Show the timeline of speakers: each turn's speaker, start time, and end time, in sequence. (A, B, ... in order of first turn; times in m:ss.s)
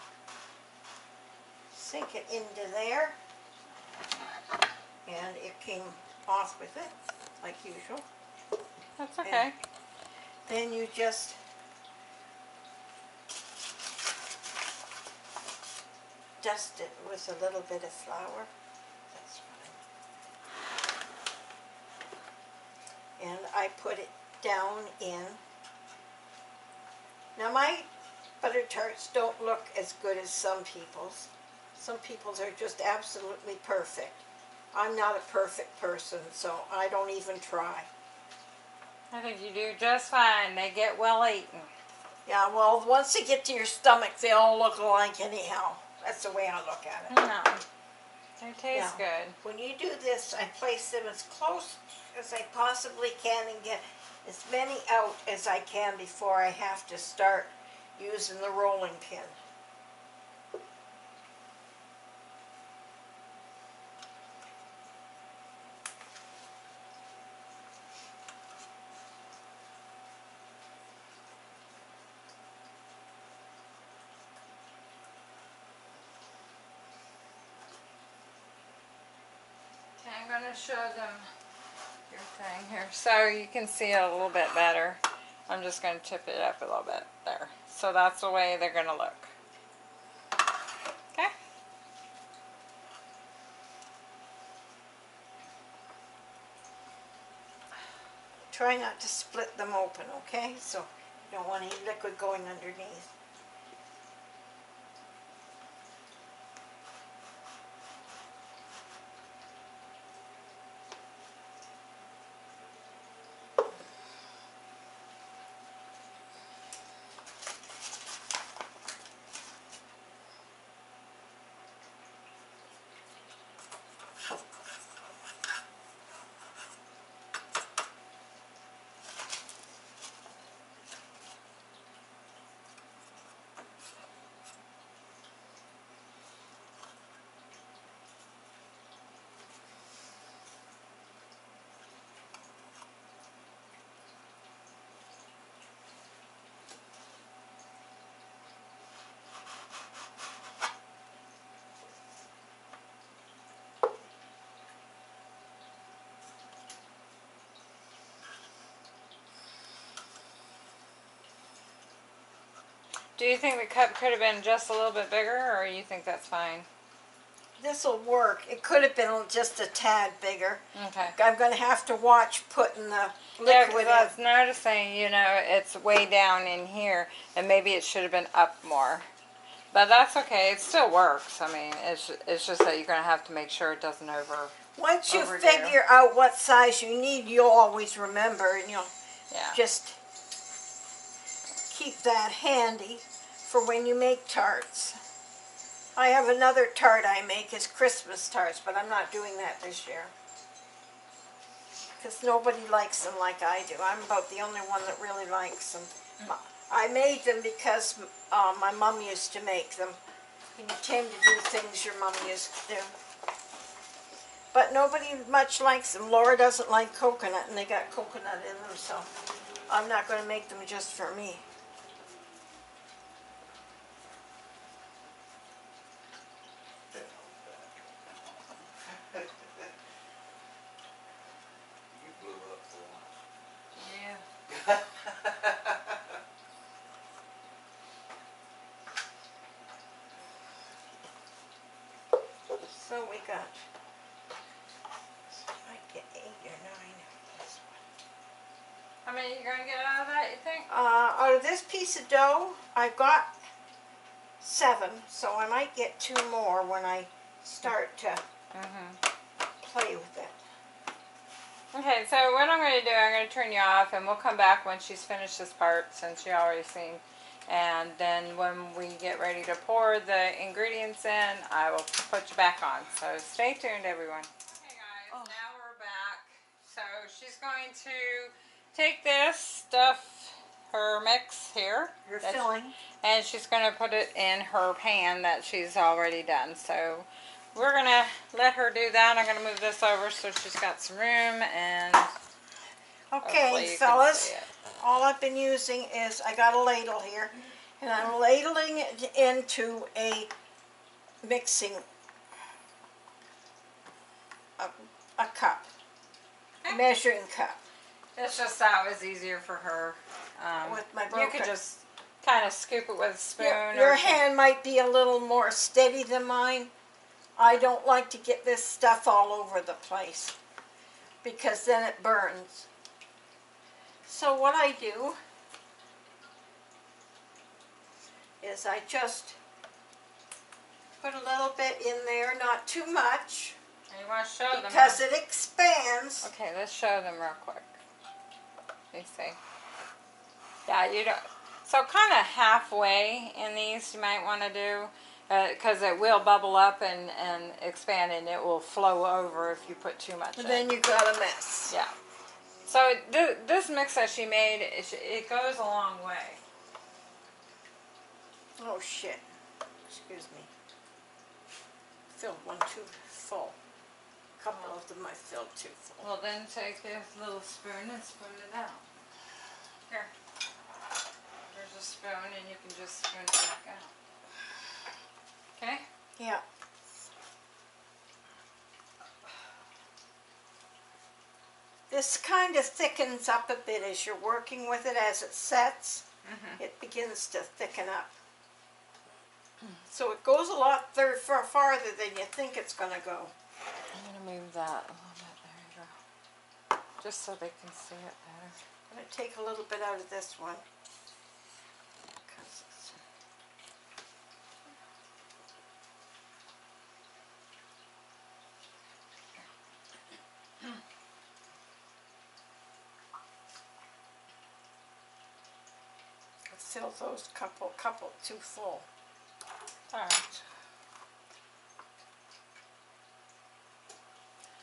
0:01.7-0:03.2 A
0:05.1-0:08.1 A
0:09.0-0:09.6 B
0:09.2-0:09.5 A
0:10.5-0:11.4 A
0:16.4-0:18.5 A
0:19.1-0:19.8 A
0:23.2-0:25.4 A
0:27.4-0:27.9 A
0:28.4-0:37.9 A
0:39.1-0:41.7 B
0:42.3-0:47.1 A
0:47.1-0:47.6 B
0:48.4-0:49.4 B
0:48.7-0:59.4 A
1:20.0-1:21.3 B
1:22.1-1:29.3 B
1:38.5-1:43.1 A
2:43.2-2:46.7 B
2:47.6-2:50.6 A
2:50.8-2:51.2 B
2:51.2-2:54.1 A
2:53.4-2:59.1 B
2:59.7-3:04.6 B
3:04.8-3:08.9 A
3:05.1-3:05.8 B
3:09.3-3:09.6 B
3:09.5-3:10.0 A
3:11.7-3:15.0 A
3:16.0-3:20.1 A
3:22.0-3:30.0 A
3:30.6-3:32.9 A
3:34.5-3:39.1 A
3:39.7-3:41.4 A
3:46.9-3:47.9 C
3:48.8-3:49.7 C
3:51.9-3:53.2 C
3:53.8-3:54.2 B
3:54.5-3:56.0 C
4:02.6-4:03.6 A
4:05.3-4:07.8 A
4:09.1-4:10.7 B
4:10.7-4:13.3 A
4:14.4-4:18.2 A
4:18.5-4:19.0 B
4:19.6-4:20.4 A
4:21.7-4:42.5 B
4:35.1-4:35.4 A
4:42.0-4:42.8 A
4:43.0-4:52.1 B
4:53.1-5:00.3 A
4:53.2-4:54.5 B
5:01.2-5:01.9 A
5:04.6-5:05.7 A
5:06.7-5:07.6 A
5:08.2-5:14.2 B
5:10.6-5:11.5 A
5:13.4-5:16.7 A
5:17.4-5:20.4 A
5:21.2-5:22.7 A
5:24.0-5:25.2 A
5:28.4-5:29.4 A
5:31.0-5:33.6 A
5:33.9-5:35.0 B
5:34.5-5:36.3 A
5:36.2-5:37.8 B
5:38.9-5:39.4 B
5:40.7-5:50.7 B
5:50.4-5:51.7 A
5:52.6-5:56.4 B
5:58.6-5:59.2 A
5:59.9-6:00.5 A
6:02.1-6:03.6 A
6:04.4-6:06.1 A
6:06.0-6:08.9 B
6:11.5-6:13.9 B
6:15.6-6:15.8 B
6:16.2-6:16.4 A
6:21.9-6:26.1 A
6:26.2-6:26.6 B
6:26.6-6:28.2 A
6:29.9-6:33.3 A
6:33.9-6:35.9 B
6:37.0-6:38.6 B
6:38.9-6:40.6 A
6:42.2-6:43.0 A
6:56.5-6:58.9 A
6:59.9-7:00.4 B